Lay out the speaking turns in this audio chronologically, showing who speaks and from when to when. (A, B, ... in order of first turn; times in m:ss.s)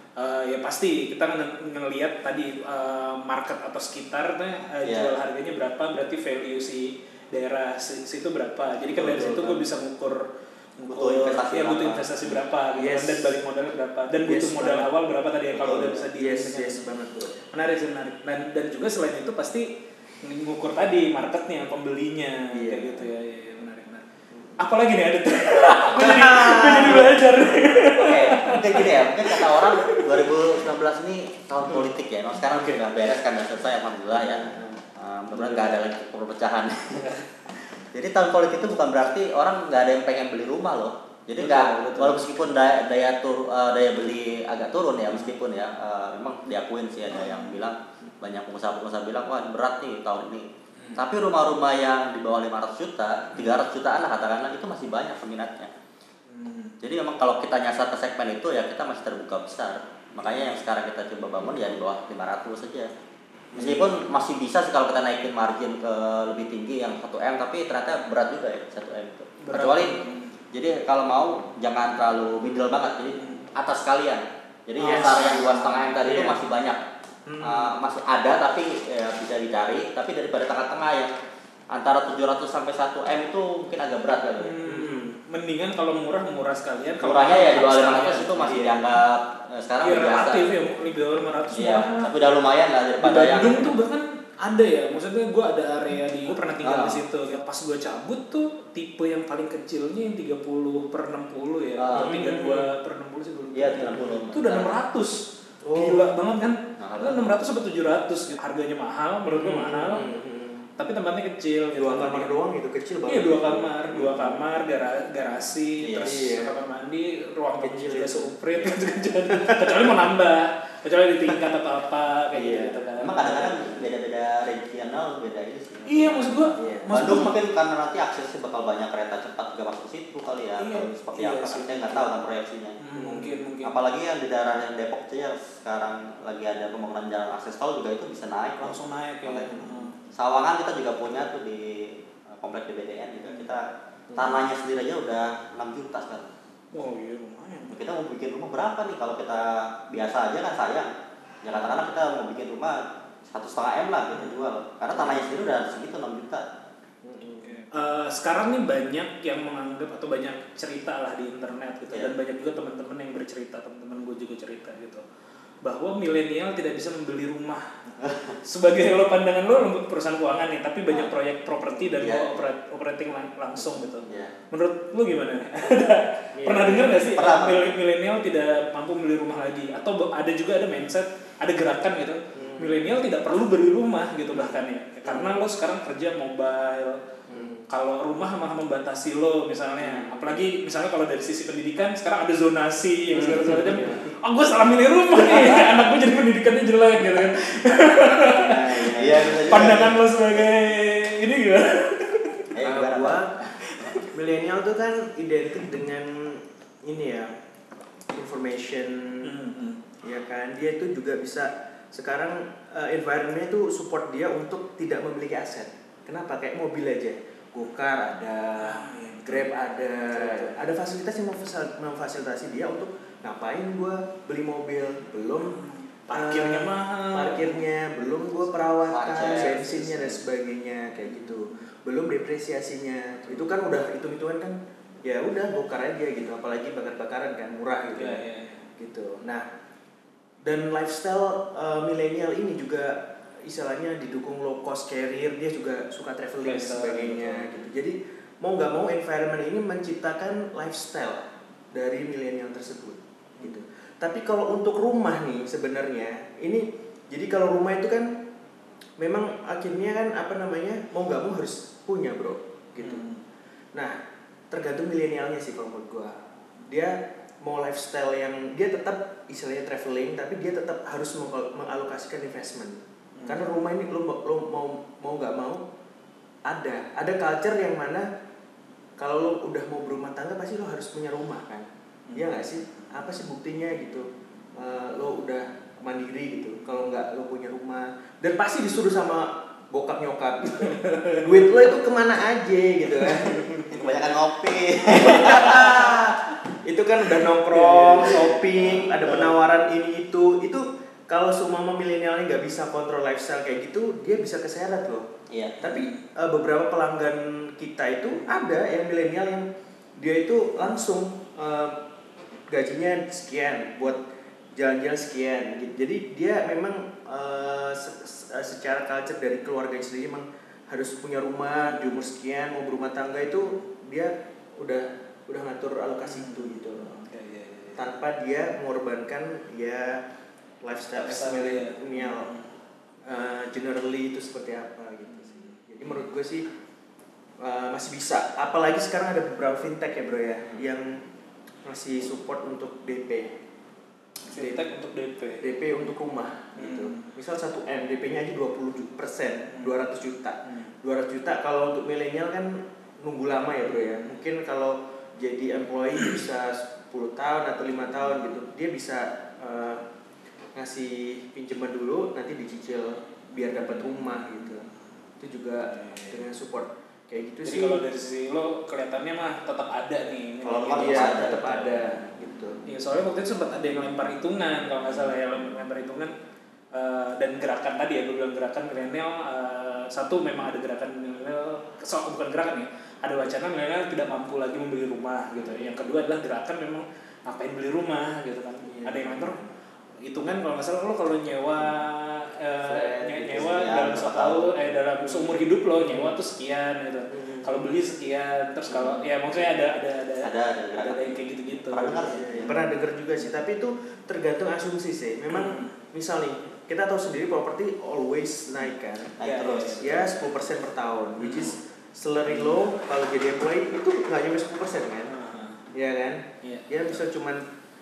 0:00.2-0:16.8 A
0:04.8-0:05.1 B
0:08.9-0:09.6 C
0:10.8-0:12.4 B
0:12.8-0:13.4 C
0:14.2-0:14.9 C
0:15.6-0:17.4 C
0:17.4-0:19.7 A
0:20.2-0:24.1 A
0:22.5-0:23.1 C
0:24.6-0:30.2 A
0:25.9-0:27.6 C
0:28.0-0:37.1 B
0:32.5-0:32.8 A
0:34.3-0:34.8 C
0:35.3-0:35.8 A
0:37.0-0:37.3 A
0:37.7-0:55.7 B
0:41.4-0:42.3 A
0:47.1-0:47.6 A
0:50.8-0:51.0 A
0:56.3-0:56.8 A
0:56.8-1:02.9 B
1:00.2-1:00.5 A
1:03.5-1:03.9 A
1:03.6-1:10.0 B
1:09.4-1:10.4 A
1:10.5-1:16.8 B
1:13.1-1:13.5 A
1:14.8-1:16.4 C
1:14.8-1:15.9 A
1:17.3-1:17.7 A
1:17.4-1:21.1 B
1:21.7-1:24.6 B
1:24.4-1:28.8 A
1:24.6-1:25.1 C
1:27.0-1:30.8 B
1:29.8-1:32.1 A
1:31.5-1:33.9 B
1:33.0-1:50.1 A
1:36.6-1:37.0 B
1:41.8-1:42.2 B
1:42.0-1:42.7 C
1:43.5-1:44.8 B
1:45.6-1:46.1 C
1:46.8-1:47.4 B
1:49.3-1:50.7 C
1:50.8-1:52.3 A
1:51.8-1:54.4 C
1:53.1-2:03.8 A
1:55.8-1:56.2 B
1:56.0-1:56.6 C
1:57.6-1:58.3 C
1:59.3-1:59.9 C
2:02.3-2:02.8 C
2:03.0-2:12.8 B
2:05.9-2:07.4 A
2:06.6-2:06.9 C
2:10.6-2:12.1 A
2:12.8-2:13.8 A
2:13.0-2:13.4 C
2:13.6-2:26.3 B
2:18.6-2:20.0 A
2:26.7-2:27.8 A
2:27.7-2:30.9 B
2:31.4-2:36.5 B
2:37.0-2:37.7 C
2:37.4-2:45.0 A
2:45.6-2:47.9 A
2:48.0-2:48.4 B
2:48.4-3:22.5 A
2:52.0-2:52.5 B
2:54.1-2:54.3 B
2:56.4-2:57.0 C
2:57.2-2:57.8 B
3:02.4-3:02.9 C
3:05.1-3:05.4 C
3:07.3-3:07.7 C
3:09.8-3:10.5 C
3:13.1-3:14.0 C
3:15.2-3:15.9 C
3:18.3-3:19.8 C
3:18.5-3:20.0 B
3:22.5-3:24.0 B
3:22.6-3:23.3 C
3:23.6-3:24.0 A
3:24.1-3:27.3 C
3:28.1-3:29.3 C
3:29.2-3:29.8 A
3:30.0-3:45.6 C
3:38.6-3:39.5 A
3:40.1-3:40.5 A
3:45.4-3:47.6 A
3:46.1-3:58.2 C
3:48.4-3:50.2 A
3:48.9-3:49.6 B
3:51.0-3:51.7 A
3:58.0-3:58.6 A
3:58.8-3:59.4 C
4:00.4-4:18.1 C
4:06.4-4:07.6 A
4:19.0-4:23.0 C
4:22.8-4:23.2 A
4:24.5-4:35.6 C
4:33.2-4:33.5 A
4:36.5-4:38.1 C
4:39.0-4:53.6 C
4:42.1-4:42.9 A
4:46.6-4:46.9 A
4:50.5-4:51.4 A
4:53.3-4:53.9 A
4:53.7-4:56.1 B
4:54.9-4:56.1 C
4:56.6-5:05.0 C
4:57.5-4:58.4 A
4:58.0-4:59.4 B
5:05.3-5:05.6 B
5:05.6-5:06.0 A
5:05.6-5:09.5 C
5:10.0-5:11.8 C
5:12.5-5:14.0 C
5:14.6-5:27.0 C
5:21.6-5:22.0 A
5:26.0-5:27.9 A
5:27.8-5:30.0 C
5:30.6-5:32.3 C
5:31.0-5:32.6 A
5:33.1-5:36.4 C
5:35.0-5:36.1 A
5:37.4-5:41.0 C
5:41.6-5:43.4 C
5:44.3-5:45.4 A
5:44.4-5:44.6 C
5:45.4-5:59.8 C
5:46.6-5:47.1 A
5:50.4-5:50.7 A
5:53.6-5:54.2 A
6:00.6-6:04.6 C
6:03.7-6:04.7 A
6:05.2-6:07.8 C
6:05.6-6:06.2 A
6:07.4-6:11.8 A
6:10.4-6:11.5 B
6:10.8-6:12.6 C
6:12.7-6:16.1 A
6:16.7-6:29.4 A
6:25.3-6:26.0 C
6:28.6-6:29.4 C
6:30.0-6:42.7 A
6:32.7-6:33.4 C
6:33.2-6:34.5 B
6:35.0-6:36.2 C
6:37.1-6:37.6 C
6:40.2-6:42.6 B
6:42.1-6:49.2 C
6:45.3-6:45.8 A
6:49.2-6:50.0 B
6:49.2-6:50.2 A
6:49.8-6:55.1 C
6:51.2-6:51.6 A
6:52.3-6:52.7 A
6:55.1-6:55.6 A
6:55.7-6:57.4 C
6:56.4-6:57.0 A